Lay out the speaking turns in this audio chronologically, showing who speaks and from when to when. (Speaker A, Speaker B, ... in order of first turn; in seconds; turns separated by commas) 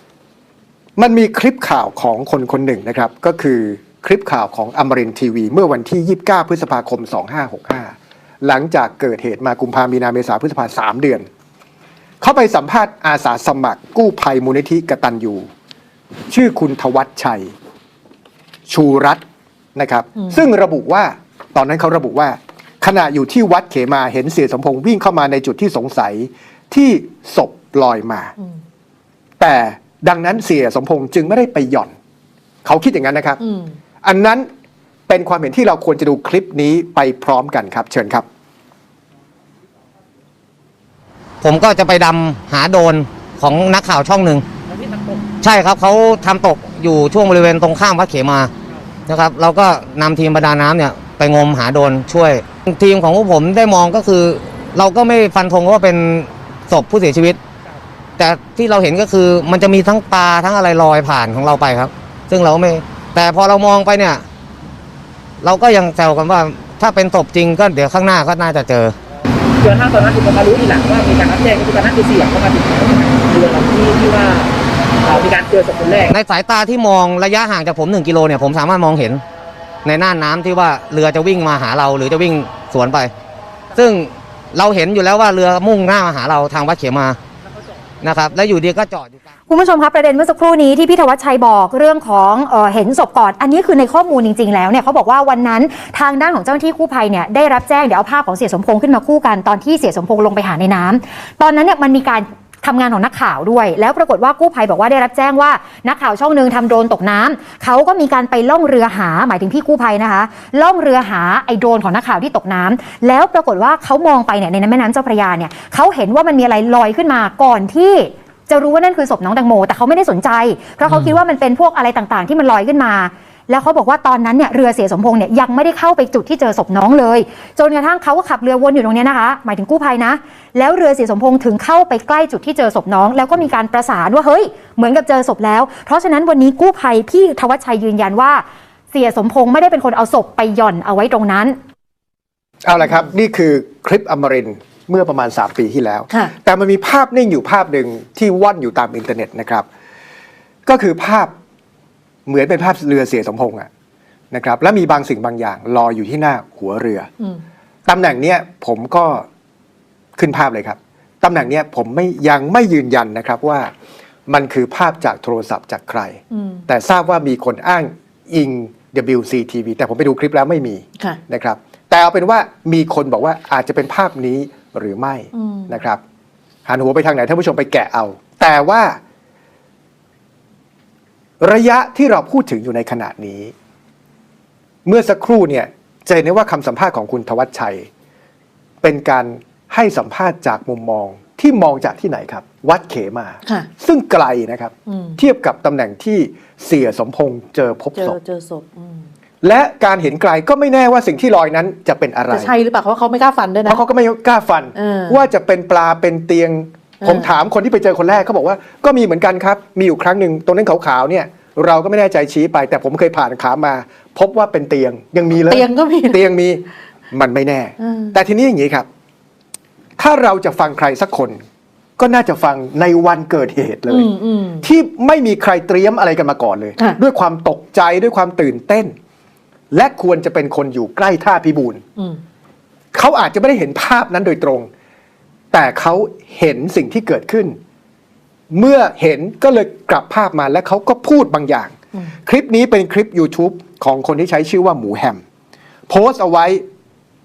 Speaker A: 1.0-11.3, Speaker A: 12.2-15.5, Speaker A: 16.3-17.5, Speaker A: 18.7-19.2, Speaker A: 19.8-28.3, Speaker A: 29.4-31.9, Speaker A: 32.6-33.4, Speaker B: 33.4-33.8, Speaker A: 34.0-34.5, Speaker A: 35.1-38.3, Speaker C: 41.4-44.5, Speaker C: 45.4-48.5, Speaker C: 49.1-57.4, Speaker C: 58.2-64.3, Speaker C: 65.4-69.0, Speaker D: 69.6-74.5, Speaker D: 75.0-76.1, Speaker C: 76.1-79.2, Speaker C: 79.8-83.1, Speaker C: 83.7-87.2, Speaker C: 88.0-89.2, Speaker E: 89.5-141.6, Speaker A: 142.6-149.7, Speaker A: 150.7-151.3, Speaker A: 152.3-153.7, Speaker A: 154.3-157.1, Speaker A: 157.9-159.3, Speaker A: 160.2-163.7, Speaker A: 164.3-176.0, Speaker B: 166.3-166.6, Speaker B: 175.3-175.7, Speaker A: 176.7-179.0, Speaker A: 181.4-183.5, Speaker A: 184.8-187.9, Speaker A: 188.8-198.2, Speaker B: 194.9-195.2, Speaker B: 197.9-199.1, Speaker A: 199.4-202.5, Speaker B: 202.3-203.8, Speaker A: 203.7-218.9, Speaker B: 204.8-205.2, Speaker B: 207.0-207.3, Speaker B: 215.5-216.2, Speaker B: 217.8-218.1, Speaker A: 220.0-221.4, Speaker A: 222.0-224.1, Speaker B: 223.9-224.7, Speaker A: 224.6-228.9, Speaker A: 229.7-231.8, Speaker A: 232.9-234.7, Speaker A: 235.5-237.6, Speaker A: 238.5-245.2, Speaker A: 245.9-246.7